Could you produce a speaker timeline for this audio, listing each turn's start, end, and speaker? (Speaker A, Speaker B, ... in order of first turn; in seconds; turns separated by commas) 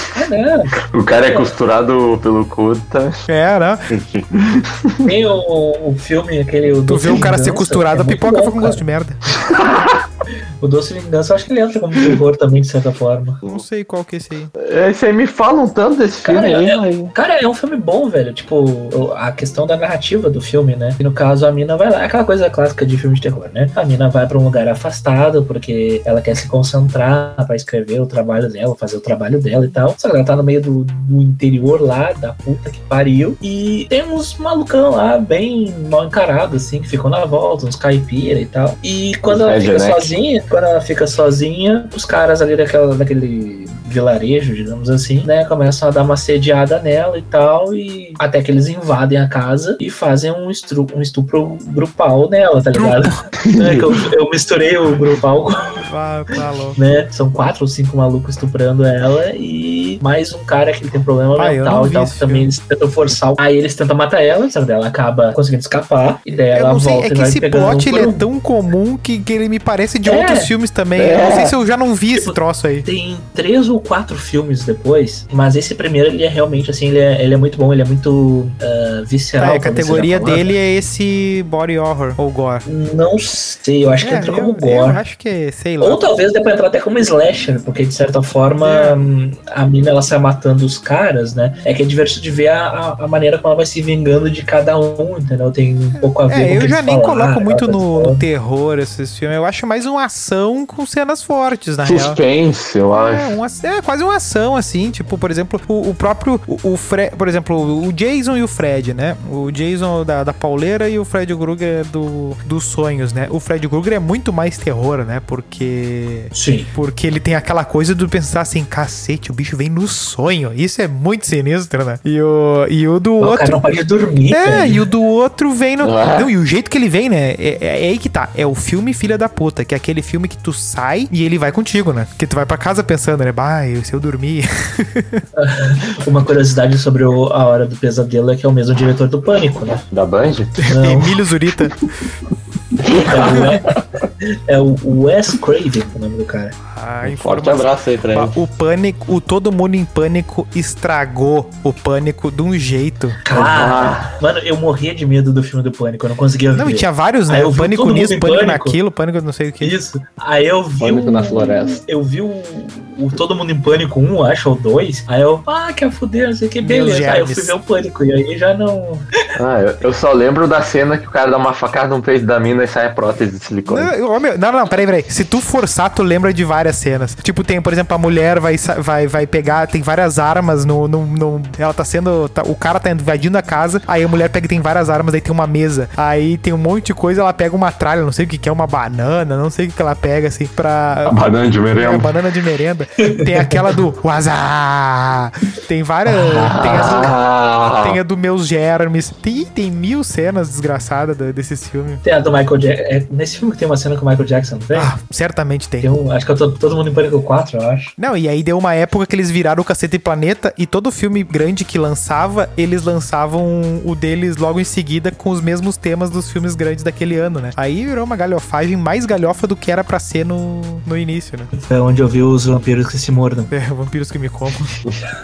Speaker A: 0.1-1.5, Speaker B: 0.8-3.2, Speaker C: 3.3-3.9, Speaker B: 3.9-5.1, Speaker A: 5.0-8.8, Speaker C: 6.9-9.3, Speaker B: 9.3-10.0, Speaker A: 10.6-13.4, Speaker C: 13.4-14.5, Speaker B: 14.6-17.1, Speaker A: 16.2-55.8, Speaker B: 39.3-40.1, Speaker C: 52.8-53.0, Speaker B: 53.4-54.0, Speaker C: 55.8-56.8, Speaker A: 56.8-68.2, Speaker C: 61.4-62.5, Speaker C: 66.3-72.8, Speaker A: 70.0-70.5, Speaker B: 71.0-71.5, Speaker A: 72.1-80.5, Speaker C: 79.4-82.7, Speaker A: 82.7-85.0, Speaker C: 84.0-86.0, Speaker A: 85.8-98.2, Speaker C: 88.6-89.0, Speaker C: 95.9-102.2, Speaker B: 101.8-103.4, Speaker C: 102.9-123.6, Speaker A: 116.3-116.7, Speaker A: 123.2-124.8, Speaker C: 124.3-135.2, Speaker B: 125.8-126.3, Speaker A: 135.3-139.8, Speaker B: 139.9-140.6, Speaker C: 140.6-141.9, Speaker A: 140.7-141.2, Speaker B: 142.8-143.8, Speaker A: 143.0-146.6, Speaker C: 143.2-143.6, Speaker C: 146.7-153.2, Speaker B: 147.0-148.3, Speaker A: 153.2-158.8, Speaker B: 153.3-154.1, Speaker C: 156.5-159.8, Speaker A: 159.6-169.0, Speaker B: 160.8-161.8, Speaker C: 166.6-167.6, Speaker B: 169.3-173.9, Speaker C: 173.7-191.2, Speaker B: 191.1-192.1, Speaker C: 191.8-197.1, Speaker A: 193.0-193.8, Speaker B: 196.1-198.0, Speaker C: 197.8-202.0, Speaker A: 202.0-204.9, Speaker C: 204.7-205.9, Speaker A: 205.8-207.9, Speaker C: 208.0-221.5, Speaker A: 221.5-223.5, Speaker C: 223.5-224.8